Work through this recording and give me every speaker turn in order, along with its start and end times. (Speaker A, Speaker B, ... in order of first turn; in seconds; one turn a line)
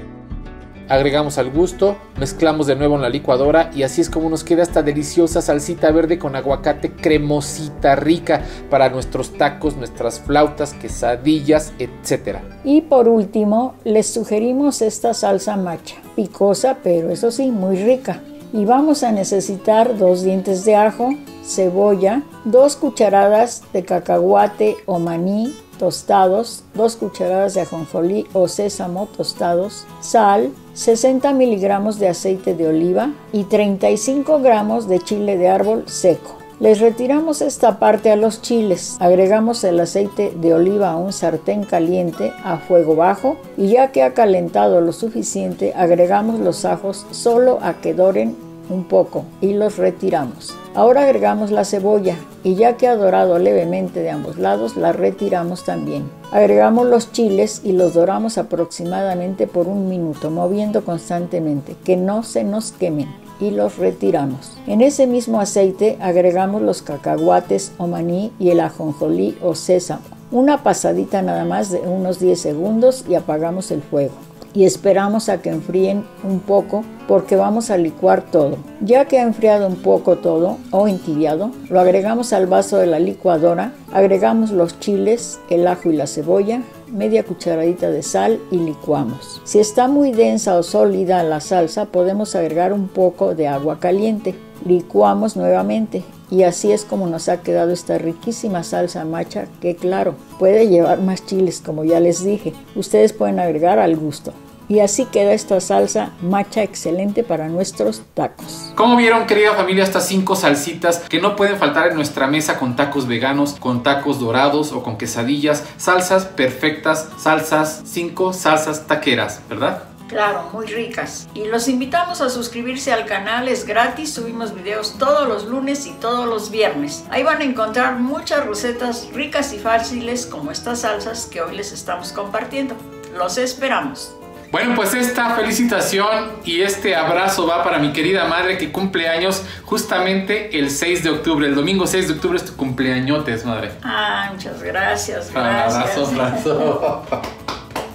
Speaker A: 0.9-12.4
Speaker B: 12.6-108.7
Speaker A: 108.7-119.9
Speaker B: 120.1-134.1
Speaker A: 134.5-143.8
Speaker B: 143.8-146.6
Speaker A: 145.3-147.2